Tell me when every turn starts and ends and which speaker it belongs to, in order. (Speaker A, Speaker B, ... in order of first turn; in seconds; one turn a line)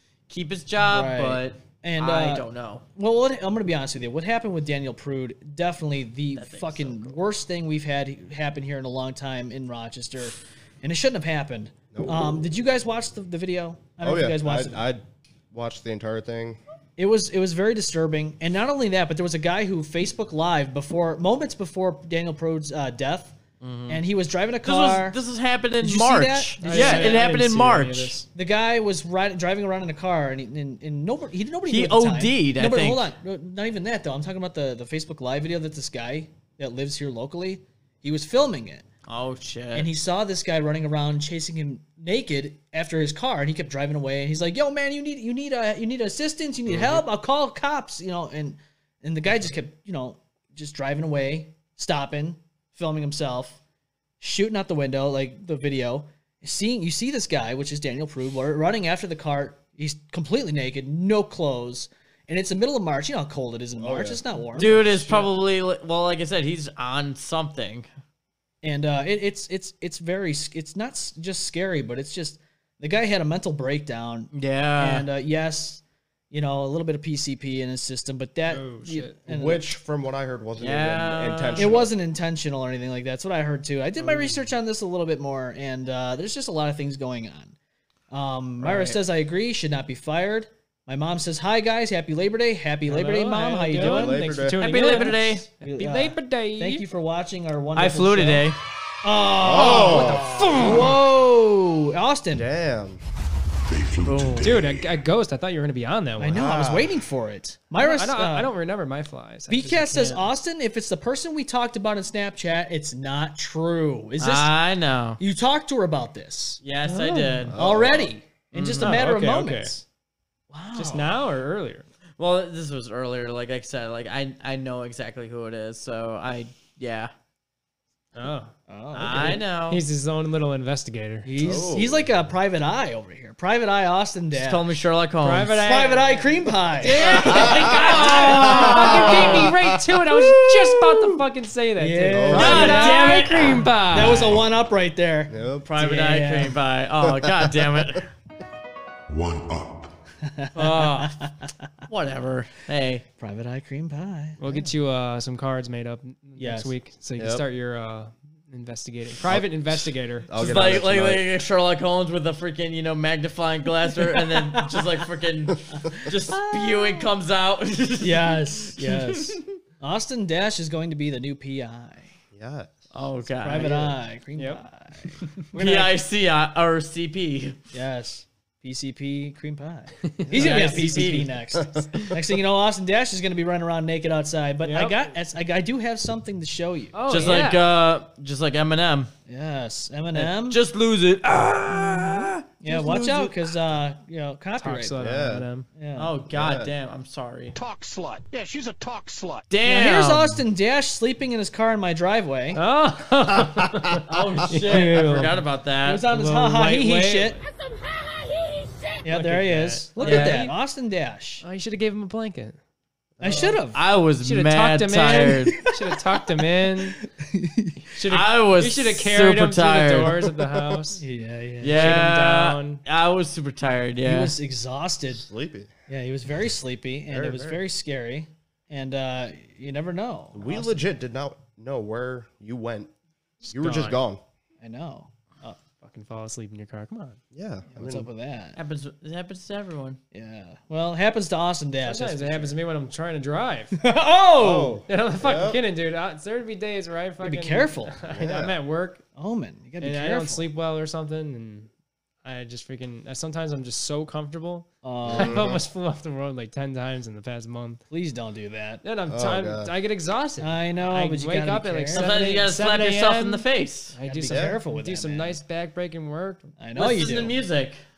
Speaker A: 0.3-2.8
Speaker B: 0.8-14.8
Speaker A: 6.3-7.2
Speaker C: 11.9-12.3
Speaker C: 14.0-16.6
Speaker B: 17.0-23.4
Speaker A: 23.6-24.0
Speaker B: 23.9-25.2
Speaker A: 24.6-28.1
Speaker B: 25.8-27.2
Speaker D: 26.6-28.3
Speaker B: 28.3-38.9
Speaker A: 31.7-33.1
Speaker A: 39.1-39.9
Speaker B: 39.7-53.6
Speaker A: 46.7-47.0
Speaker B: 54.2-65.3
Speaker C: 63.8-64.9
Speaker A: 64.5-67.9
Speaker B: 68.6-79.7
Speaker A: 74.3-75.1
Speaker D: 78.5-79.2
Speaker C: 79.2-81.9
Speaker A: 80.6-81.8
Speaker B: 81.5-87.5
Speaker D: 84.0-84.3
Speaker B: 88.1-98.5
Speaker A: 88.6-89.0
Speaker D: 92.9-96.9
Speaker C: 93.8-94.7
Speaker A: 94.5-95.5
Speaker A: 97.8-98.6
Speaker B: 99.0-102.5
Speaker C: 99.4-100.3
Speaker D: 99.5-101.0
Speaker C: 102.3-103.0
Speaker E: 103.7-105.0
Speaker A: 104.0-104.5
Speaker D: 104.4-106.5
Speaker B: 106.2-108.5
Speaker C: 106.2-106.9
Speaker D: 107.7-110.3
Speaker B: 109.5-114.5
Speaker A: 114.2-115.2
Speaker B: 115.2-116.6
Speaker A: 116.6-117.6
Speaker D: 116.8-117.5
Speaker C: 117.5-118.1
Speaker B: 117.5-119.8
Speaker A: 118.5-119.0
Speaker D: 118.8-119.8
Speaker B: 120.5-121.2
Speaker D: 120.7-121.8
Speaker A: 122.2-127.1
Speaker D: 128.1-128.5
Speaker B: 128.7-129.4
Speaker A: 128.9-129.8
Speaker D: 129.1-131.3
Speaker B: 131.2-134.7
Speaker C: 131.3-132.1
Speaker A: 134.3-135.8
Speaker D: 135.2-144.4
Speaker B: 135.6-139.5
Speaker A: 137.0-139.6
Speaker B: 141.8-143.3
Speaker C: 142.1-142.8
Speaker A: 142.3-143.7
Speaker B: 143.9-146.6
Speaker C: 145.3-145.7
Speaker A: 145.6-148.1
Speaker C: 147.0-148.0
Speaker E: 149.1-149.9
Speaker B: 150.2-151.4
Speaker A: 150.5-151.2
Speaker A: 151.9-153.0
Speaker B: 153.2-154.7
Speaker D: 154.4-160.3
Speaker B: 156.4-156.7
Speaker C: 159.2-161.3
Speaker A: 160.3-169.4
Speaker B: 164.3-164.8
Speaker B: 166.3-166.9
Speaker B: 168.0-172.1
Speaker C: 172.3-172.9
Speaker A: 172.9-173.9
Speaker B: 173.4-176.0
Speaker D: 174.3-174.6
Speaker A: 175.5-177.6
Speaker B: 177.7-187.4
Speaker D: 180.2-181.0
Speaker A: 180.3-181.4
Speaker C: 181.6-182.0
Speaker D: 184.6-185.1
Speaker D: 186.9-187.7
Speaker A: 187.1-189.1
Speaker B: 189.3-190.6
Speaker A: 190.1-193.4
Speaker B: 192.6-195.0
Speaker D: 194.6-195.7
Speaker C: 195.0-195.5
Speaker B: 195.8-196.1
Speaker A: 195.9-197.6
Speaker C: 196.3-196.7
Speaker F: 197.5-199.4
Speaker A: 199.5-200.4
Speaker B: 199.6-202.6
Speaker D: 202.5-205.5
Speaker A: 204.1-206.1
Speaker B: 204.6-205.2
Speaker B: 205.8-207.4
Speaker D: 206.0-207.4
Speaker D: 209.0-210.6
Speaker B: 209.0-211.4
Speaker A: 210.0-210.5
Speaker D: 211.4-212.6
Speaker C: 213.2-213.6
Speaker B: 213.2-213.8
Speaker D: 213.3-213.5
Speaker A: 213.7-215.7
Speaker D: 214.2-217.0
Speaker B: 217.2-217.8
Speaker D: 217.9-221.0
Speaker A: 218.1-220.3
Speaker B: 221.0-221.9
Speaker A: 221.6-224.3
Speaker D: 221.6-222.8
Speaker B: 224.0-225.2
Speaker C: 225.1-225.7
Speaker B: 225.9-230.8
Speaker C: 227.1-227.6
Speaker C: 230.3-232.9
Speaker C: 233.4-234.2
Speaker D: 233.6-233.9
Speaker B: 234.6-235.6
Speaker D: 235.8-237.2
Speaker C: 237.3-238.1
Speaker B: 237.7-238.6
Speaker A: 238.6-240.0
Speaker B: 240.1-242.5
Speaker D: 241.8-243.8
Speaker B: 243.8-244.8
Speaker C: 244.4-245.6
Speaker D: 244.8-249.0
Speaker B: 247.2-248.0
Speaker C: 248.1-248.5
Speaker B: 249.2-250.5
Speaker D: 249.8-251.7
Speaker D: 252.2-257.8
Speaker B: 254.8-255.5
Speaker C: 255.0-255.6
Speaker B: 257.9-258.8
Speaker D: 258.8-266.5
Speaker C: 259.1-259.7
Speaker B: 260.4-262.3
Speaker A: 261.9-263.9
Speaker B: 264.0-265.4
Speaker C: 264.3-264.6
Speaker B: 266.6-267.3
Speaker A: 266.7-267.8